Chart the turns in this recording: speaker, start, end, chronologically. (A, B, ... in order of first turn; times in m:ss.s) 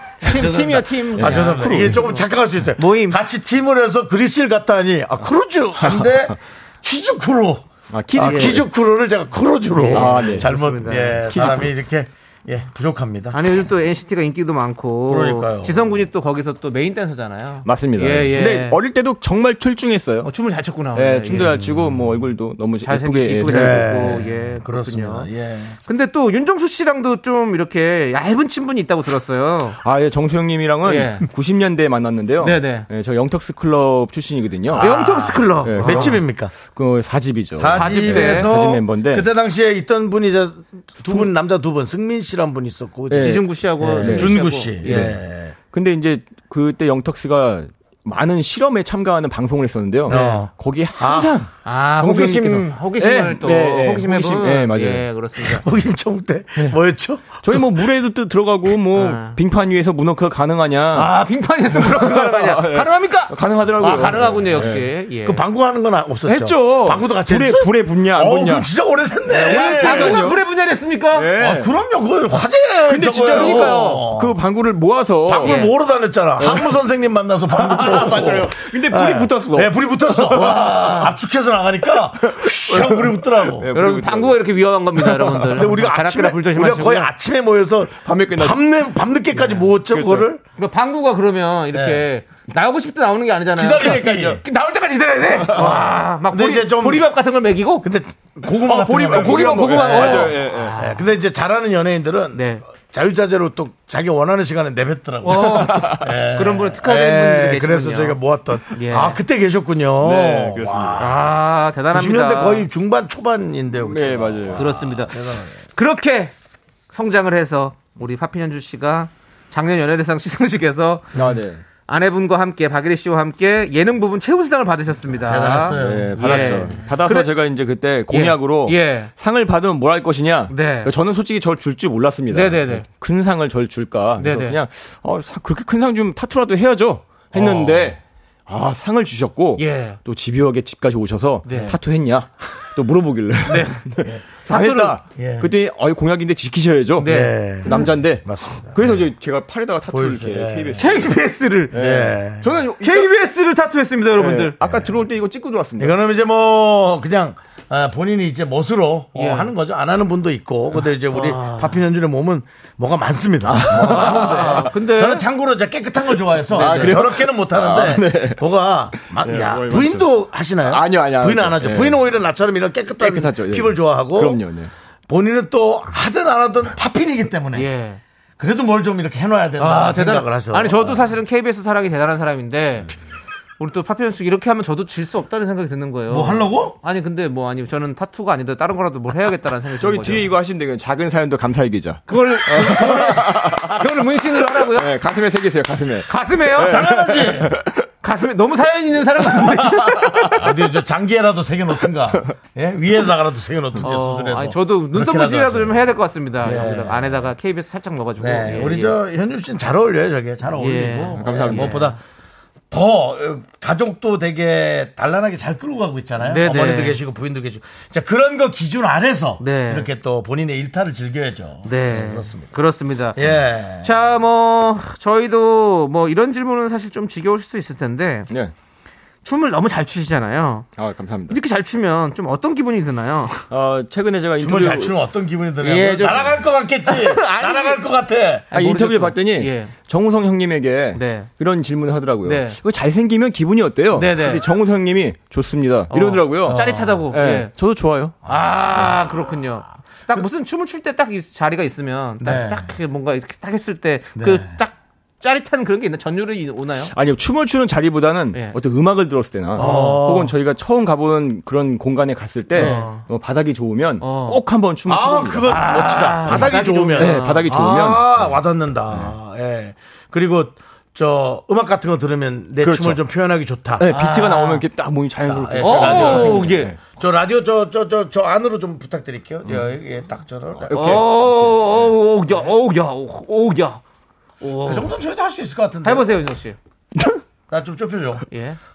0:00.2-0:02.2 A
0:00.2-0:13.4 B
0:01.2-0:02.0 C
0:02.8-0:03.2 A
0:07.9-0:08.7 C
0:08.2-0:08.6 A
0:09.7-0:11.7 A
0:09.9-0:10.5 C
0:11.3-0:11.7 C
0:13.3-0:18.8 A
0:15.1-0:15.9 B
0:17.6-0:20.3 C
0:20.2-0:21.6 A
0:20.9-0:24.2 C
0:22.8-0:25.3 A
0:23.4-0:25.8 B
0:25.8-0:29.8 A
0:29.8-0:34.9 C
0:30.8-0:31.2 A
0:32.4-0:32.9 A
0:34.7-0:36.5 B
0:34.8-0:36.2 A
0:35.6-0:39.3 C
0:37.6-0:45.5 B
0:37.7-0:38.5 A
0:43.1-0:55.0 C
0:43.1-0:45.2 A
0:50.1-0:51.3 B
0:50.1-0:50.4 A
0:51.6-0:55.6 A
0:55.4-0:57.6 B
0:57.4-1:01.1 C
0:58.9-0:59.4 A
1:00.9-1:05.4 A
1:01.8-1:04.9 C
1:04.3-1:10.2 B
1:06.2-1:08.7 C
1:09.3-1:10.4 C
1:09.3-1:11.3 A
1:11.1-1:11.7 C
1:11.4-1:14.4 B
1:12.9-1:15.6 C
1:13.3-1:14.0 A
1:15.3-1:23.7 B
1:15.4-1:15.7 A
1:16.4-1:16.7 C
1:17.6-1:20.6 C
1:20.3-1:21.1 A
1:22.4-1:24.5 C
1:23.7-1:27.1 A
1:25.3-1:30.4 B
1:28.0-1:28.6 C
1:29.4-1:30.3 C
1:30.6-1:37.9 A
1:31.7-1:32.0 B
1:33.5-1:34.4 B
1:33.8-1:34.4 C
1:35.4-1:35.8 C
1:35.4-1:37.1 B
1:37.8-1:51.2 B
1:38.5-1:40.8 C
1:39.1-1:41.1 A
1:42.3-1:42.6 A
1:45.2-1:48.2 A
1:45.4-1:46.0 C
1:48.7-1:49.2 A
1:50.0-1:51.2 C
1:51.0-1:52.6 A
1:51.9-1:55.5 B
1:53.8-1:54.7 C
1:54.6-1:55.1 A
1:55.7-1:56.3 A
1:56.9-2:01.1 A
2:01.1-2:01.6 C
2:01.8-2:07.3 A
2:05.2-2:06.8 B
2:05.7-2:31.1 C
2:08.1-2:09.1 A
2:10.5-2:10.9 A
2:12.3-2:12.8 A
2:14.2-2:14.6 A
2:17.3-2:17.9 B
2:19.6-2:20.0 A
2:21.4-2:21.7 A
2:21.5-2:21.8 B
2:23.5-2:23.8 A
2:24.4-2:25.0 A
2:25.1-2:25.5 B
2:27.0-2:27.8 A
2:27.0-2:29.1 B
2:29.9-2:30.8 B
2:30.8-2:31.8 A
2:31.7-2:32.6 B
2:31.7-2:33.1 C
2:32.8-2:34.6 A
2:34.2-2:35.9 C
2:35.8-2:54.4 B
2:39.1-2:39.5 A
2:41.1-2:41.8 A
2:43.5-2:44.6 C
2:43.7-2:45.2 A
2:46.5-2:48.4 C
2:46.5-2:47.0 A
2:49.0-2:50.1 C
2:50.6-2:52.0 C
2:53.0-2:54.7 C
2:55.1-2:57.7 B
2:57.5-2:58.0 A
2:58.4-3:01.1 B
2:59.6-3:02.9 A
3:03.6-3:10.3 A
3:06.1-3:06.8 B
3:09.8-3:13.7 C
3:12.1-3:14.9 A
3:14.5-3:17.7 C
3:16.1-3:16.9 A
3:16.6-3:17.5 B
3:18.0-3:20.5 A
3:20.3-3:25.9 B
3:23.8-3:29.0 A
3:26.4-3:27.3 B
3:28.2-3:32.0 B
3:30.6-3:32.0 A
3:31.2-3:31.9 C
3:32.7-3:42.5 B
3:36.2-3:37.0 A
3:39.4-3:39.9 A
3:41.6-3:43.2 A
3:43.1-3:43.9 B
3:43.8-3:48.3 A
3:49.2-3:50.7 A
3:50.8-3:51.4 C
3:51.3-3:53.4 A
3:53.5-3:54.9 C
3:54.4-3:58.5 B
3:55.6-3:57.8 A
3:58.5-3:59.7 A
3:58.5-4:08.1 C
4:00.9-4:01.3 A
4:02.2-4:02.6 A
4:03.9-4:04.4 A
4:05.9-4:07.5 A
4:06.4-4:07.0 B
4:08.2-4:16.9 A
4:12.2-4:12.7 B
4:14.2-4:14.6 B
4:16.9-4:28.2 C
4:19.5-4:20.3 B
4:19.6-4:20.0 A
4:22.5-4:23.0 A
4:22.6-4:22.9 B
4:24.0-4:24.4 A
4:24.9-4:33.9 B
4:25.4-4:27.6 A
4:32.6-4:33.0 C
4:33.8-4:36.8 C
4:33.9-4:34.6 A
4:35.3-4:41.1 B
4:35.6-4:36.7 A
4:40.6-4:41.6 C
4:40.7-4:43.8 A
4:44.4-4:44.9 A
4:44.6-4:46.2 B
4:45.8-4:46.6 A
4:47.5-4:48.2 B
4:48.3-4:48.6 A